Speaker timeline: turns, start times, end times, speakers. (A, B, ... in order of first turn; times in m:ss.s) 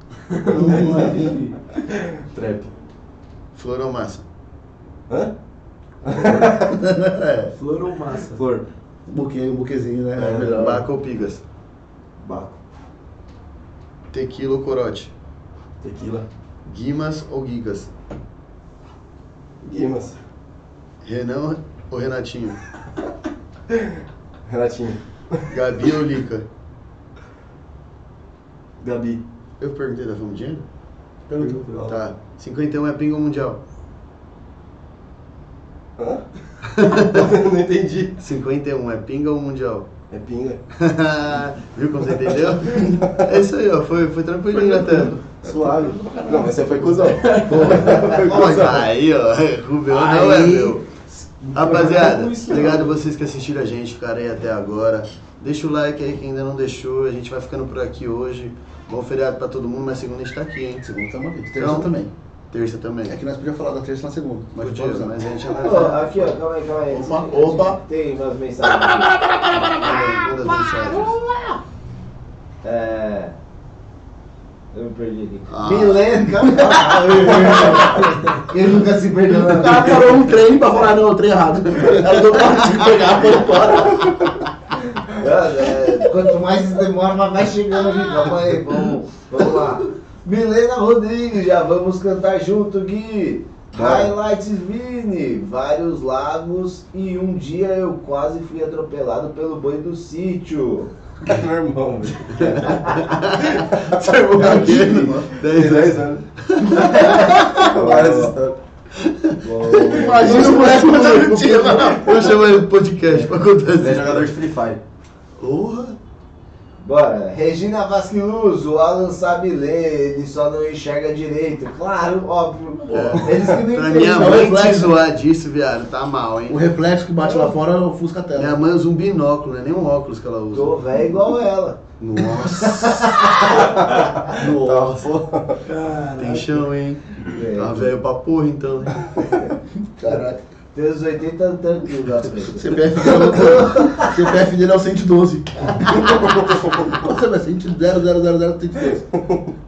0:00.3-0:01.6 A
0:00.5-0:01.4 B
0:00.5-0:02.7 C
0:03.6-0:04.2 D
0:06.0-0:06.8 C
0:06.8-0:07.5 D
0:07.5-0:08.4 A
0:08.4-0:08.6 C
0:09.1-0:10.8 B
0:10.2-0:10.8 C
0:10.5-0:11.4 D
0:12.2-0:12.6 C
0:14.1-0:15.1 D
0:15.8-0:16.2 C
0:16.7-0:17.9 D
0:19.6-0:20.2 C
0:21.0-0:22.6 D
0:23.7-0:25.5 C
0:25.5-0:26.5 D
0:28.8-0:29.2 C
0:29.6-0:30.6 D
0:31.3-0:31.7 B
0:31.4-0:32.0 C
0:31.8-0:33.6 D
0:36.0-0:36.3 C
0:36.7-0:37.3 D
0:36.8-0:38.2 C
0:38.2-0:39.9 D
0:40.1-0:40.6 C
0:40.8-0:45.1 D
0:44.5-0:48.8 B
0:45.4-0:48.8 C
0:47.1-0:48.1 A
0:48.0-0:50.9 D
0:49.9-0:50.8 B
0:51.5-0:52.9 A
0:51.5-1:00.8 D
1:00.8-1:02.1 B
1:01.6-1:01.9 D
1:02.5-1:03.2 D
1:03.1-1:05.8 B
1:04.5-1:06.3 D
1:05.5-1:09.1 E
1:06.9-1:07.8 B
1:08.6-1:10.3 B
1:09.7-1:11.2 D
1:10.1-1:11.6 E
1:12.6-1:13.3 E
1:14.7-1:20.1 E
1:15.5-1:16.1 D
1:16.2-1:18.2 B
1:19.3-1:24.5 B
1:22.1-1:22.9 D
1:25.1-1:40.9 E
1:27.8-1:28.2 B
1:33.7-1:34.1 C
1:41.2-1:42.8 C
1:42.3-1:47.6 D
1:42.4-1:43.2 E
1:43.5-1:44.0 C
1:44.3-1:45.3 B
1:44.4-1:44.9 E
1:45.4-1:46.3 C
1:46.7-1:48.4 E
1:46.8-1:48.6 C
1:49.0-1:54.3 D
1:49.4-1:50.7 E
1:49.8-1:52.4 B
1:53.8-1:54.8 C
1:55.4-1:56.0 D
1:56.8-2:04.8 E
2:02.9-2:05.0 B
2:02.9-2:06.7 D
2:06.5-2:08.6 B
2:07.2-2:07.5 E
2:08.4-2:10.8 D
2:10.5-2:13.8 E
2:12.0-2:15.1 D
2:13.6-2:15.6 C
2:15.6-2:16.7 A
2:16.2-2:19.0 D
2:17.3-2:17.9 E
2:19.8-2:20.4 B
2:20.7-2:24.2 E
2:22.4-2:29.0 B
2:26.4-2:26.7 C
2:28.8-2:29.5 C